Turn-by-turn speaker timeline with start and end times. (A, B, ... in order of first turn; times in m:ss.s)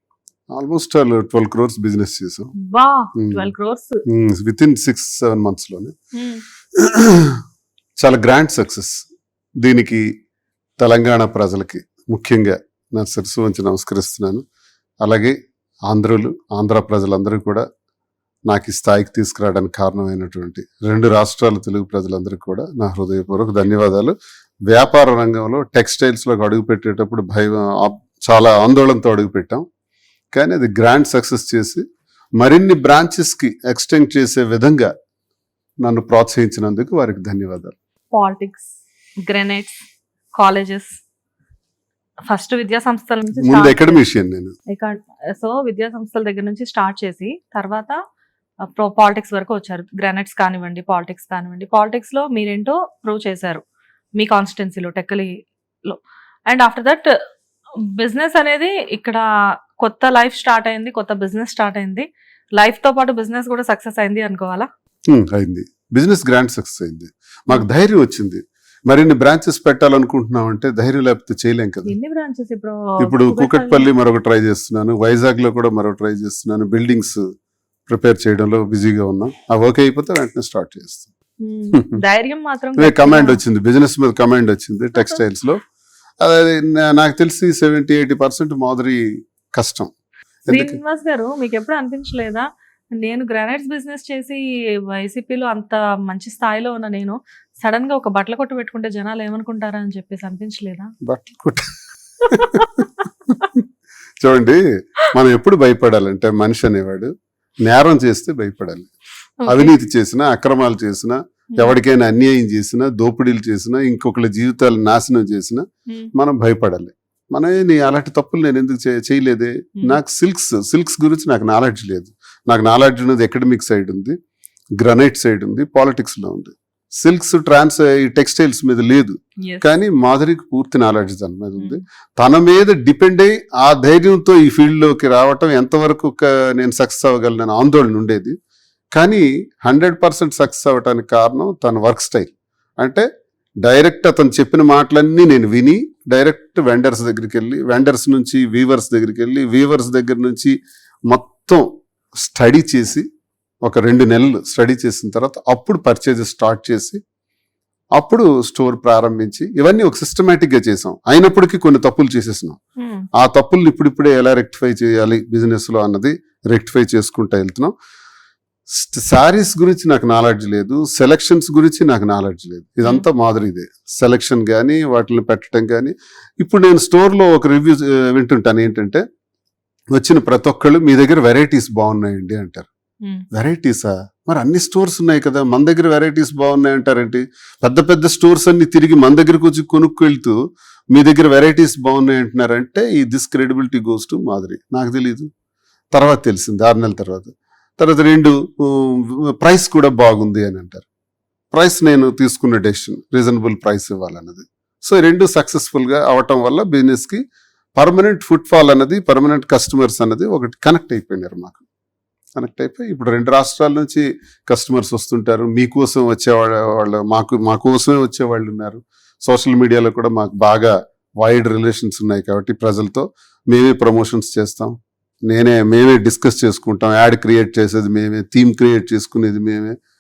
0:00.5-0:02.5 A
0:02.6-0:04.0 B
0:03.2-0:03.5 A
0:04.1-0:06.0 A
0:06.2-0:06.4 B
0:06.8-0:07.4 A
0:08.0-0:09.0 A
0:09.6-0:10.1 A
0:10.8-0:14.4 A
0:15.0-0:15.4 A
0:15.9-0:17.7 A
0:18.5-0:24.2 A
0:24.7-0:29.6 A
0:30.3-0:31.8 A
0:32.4-0:34.9 A
0:35.8-0:37.8 A
0:38.1-0:38.7 B
0:39.3-0:39.8 B
0:40.4-0:41.0 B
0:42.3-0:44.0 B
0:43.4-0:44.5 A
0:44.7-0:48.0 B
0:48.7-0:53.6 B
0:54.2-0:55.3 B
0:55.8-0:57.1 B
0:58.0-0:59.2 B
0:59.8-1:02.1 B
1:02.6-1:04.7 B
1:05.1-1:11.9 A
1:11.9-1:13.9 B
1:13.0-1:17.2 A
1:17.9-1:21.1 A
1:21.4-1:23.4 B
1:22.8-1:25.6 A
1:26.2-1:29.0 A
1:29.6-1:29.9 A
1:30.5-1:30.8 A
1:30.5-1:32.5 B
1:33.0-1:40.9 B
1:41.1-1:41.7 A
1:42.3-1:42.7 B
1:42.3-1:43.6 A
1:44.2-1:44.6 A
1:45.1-1:47.1 A
1:47.7-1:48.9 A
1:49.4-1:49.7 B
1:49.5-1:55.6 A
1:56.2-2:04.2 A
2:04.8-2:18.4 A
2:09.4-2:09.8 B
2:19.0-2:23.1 A
2:23.6-2:30.5 A
2:31.1-2:33.1 A
2:33.6-2:37.0 A
2:38.0-2:42.6 A
2:42.8-2:43.1 B
2:43.2-2:47.7 A
2:48.8-2:59.0 A
2:59.9-3:02.7 A
3:03.3-3:10.4 A
3:10.9-3:15.3 A
3:15.9-3:20.8 A
3:21.5-3:27.2 A
3:27.8-3:31.6 A
3:32.4-3:44.8 A
3:45.3-3:49.8 A